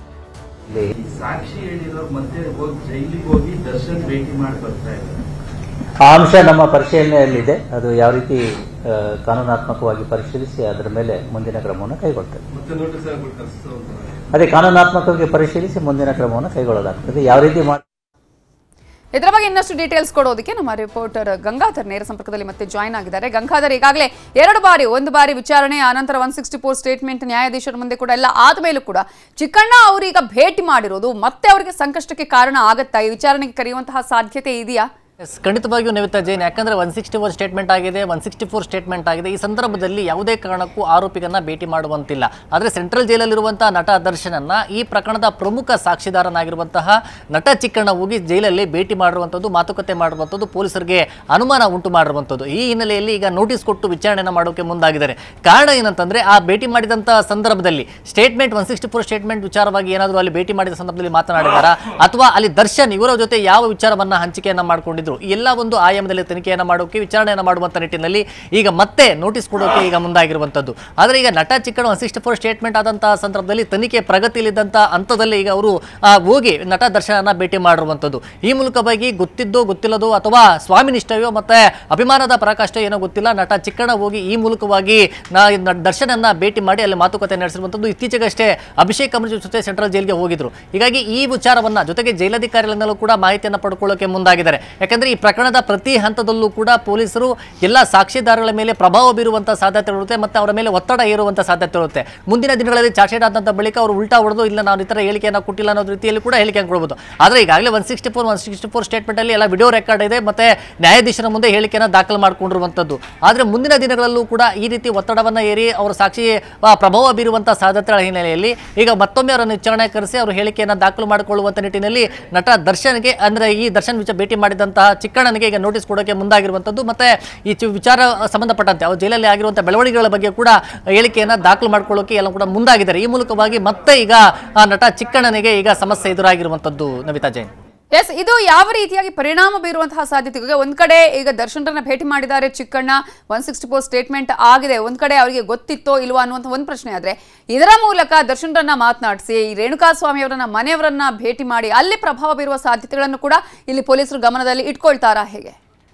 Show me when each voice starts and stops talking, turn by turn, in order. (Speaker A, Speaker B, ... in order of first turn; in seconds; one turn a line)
Speaker A: 0.9-5.2
Speaker B: 6.0-12.4
Speaker A: 12.5-14.3
Speaker B: 14.3-17.8
Speaker C: 19.1-34.9
Speaker D: 35.3-137.5
Speaker C: 137.9-155.6